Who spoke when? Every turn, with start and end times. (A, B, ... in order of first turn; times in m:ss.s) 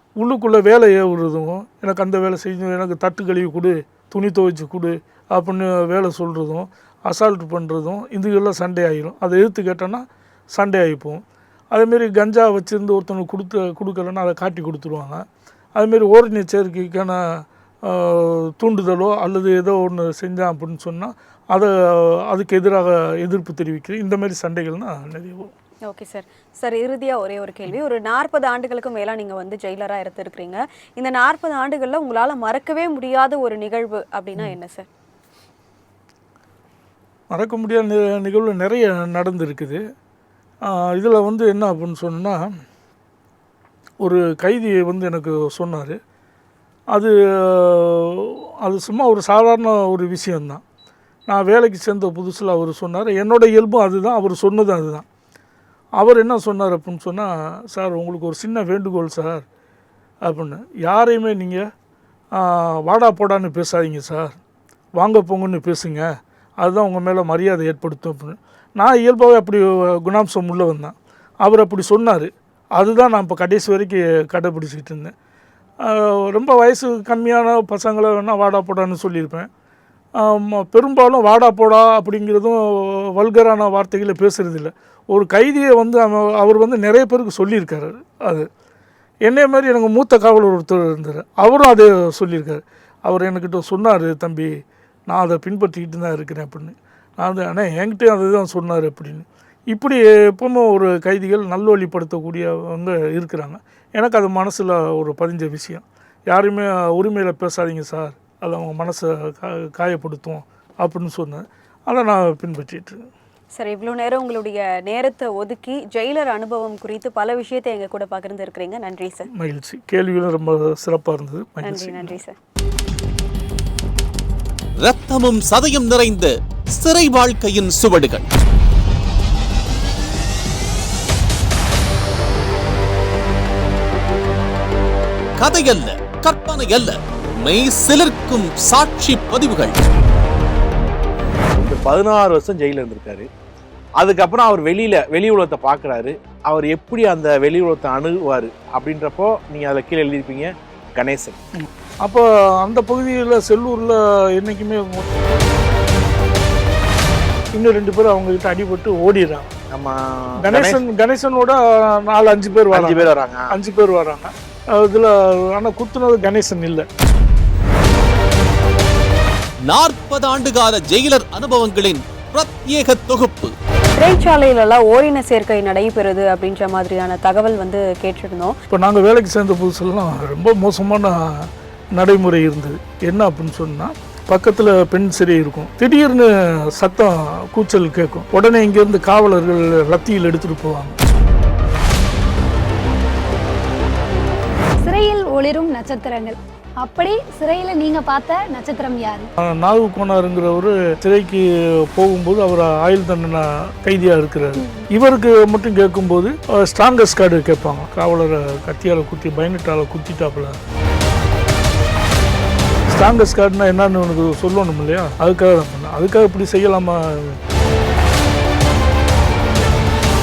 0:00.2-0:10.0 A
0:10.5-0:11.2 A
0:11.7-0:17.2 A
0:17.8-0:25.5 A
0:25.9-0:34.9 B
0:37.3-0:39.8 A
0:40.7-0:42.4 A
0:44.0-0:46.0 A
0:46.9-0:50.6 A
0:51.3-0:55.0 A
0:56.0-0:59.4 A
1:00.2-1:01.7 A
1:02.4-1:04.4 A
1:05.0-1:06.1 A
1:06.6-1:15.1 A
1:15.8-1:19.5 A
1:20.2-1:28.5 A
1:29.2-1:34.6 A
1:35.1-1:53.0 A
1:53.6-1:59.3 B
1:59.3-2:02.2 A
2:01.6-2:02.4 B
2:04.8-2:08.3 C
2:15.4-2:19.8 C
2:21.5-2:23.3 D
2:24.0-2:31.4 D
2:31.6-2:35.1 A
2:37.5-2:39.5 A
2:39.7-2:40.8 D
2:40.4-2:46.9 A
2:42.7-2:43.5 D
2:49.6-2:53.6 C
2:54.0-2:58.5 B
2:58.7-3:11.0 A
3:14.8-3:19.3 E
3:19.4-3:30.6 A
3:24.6-3:24.9 E
3:32.9-3:37.4 A